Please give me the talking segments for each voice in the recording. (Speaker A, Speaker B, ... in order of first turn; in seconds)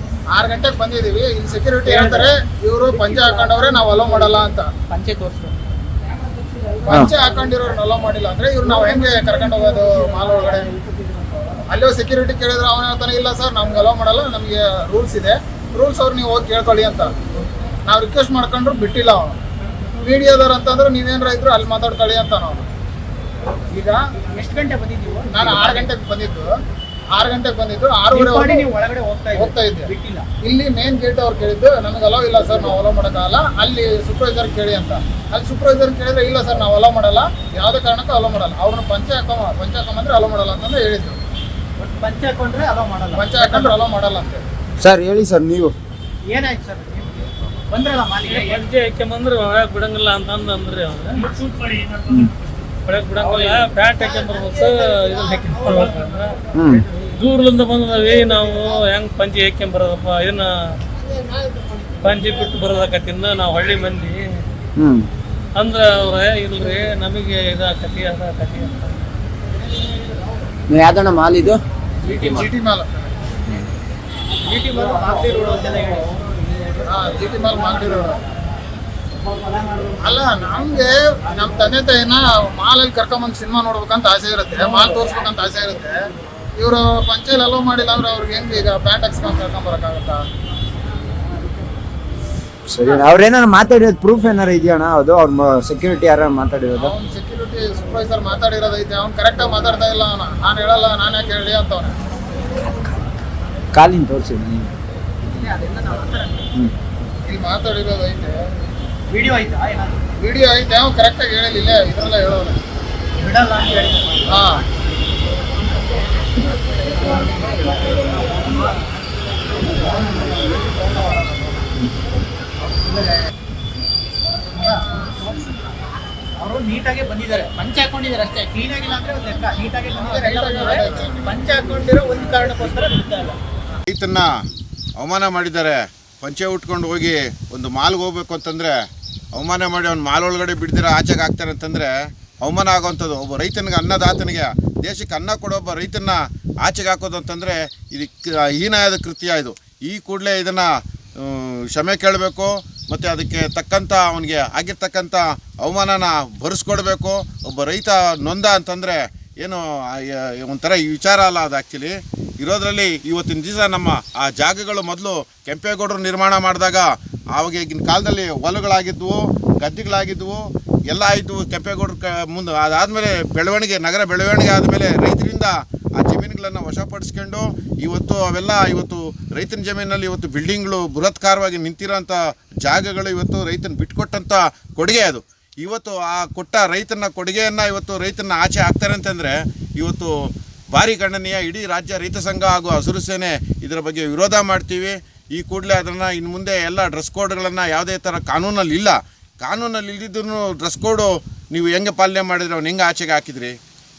Speaker A: 0.3-4.7, 6.8-10.7, 11.7-17.2, 17.9-19.4, 20.0-22.7, 25.3-26.5, 27.2-28.7, 29.4-29.9, 30.4-41.2, 43.1-44.4, 72.1-73.1, 76.8-78.2, 80.0-86.0, 86.6-90.2, 96.8-102.0, 107.3-108.4, 110.2-112.6, 114.3-114.6, 120.8-121.6, 129.9-131.3
Speaker B: 4.9-5.6, 23.8-25.9, 28.1-30.3, 41.8-43.8, 46.3-48.7, 74.4-76.2, 105.3-106.5, 109.1-110.1, 113.2-114.3, 117.9-118.8, 122.7-123.1, 124.5-125.1, 126.4-133.4
Speaker C: 44.8-45.8, 56.5-56.9, 64.8-65.1, 70.7-71.6, 92.7-96.9, 102.6-103.0, 103.7-104.7
Speaker D: 48.3-52.0, 52.9-56.3, 57.2-60.5, 62.0-64.2, 65.6-69.0
Speaker E: 133.9-134.3, 135.0-138.7, 139.3-203.6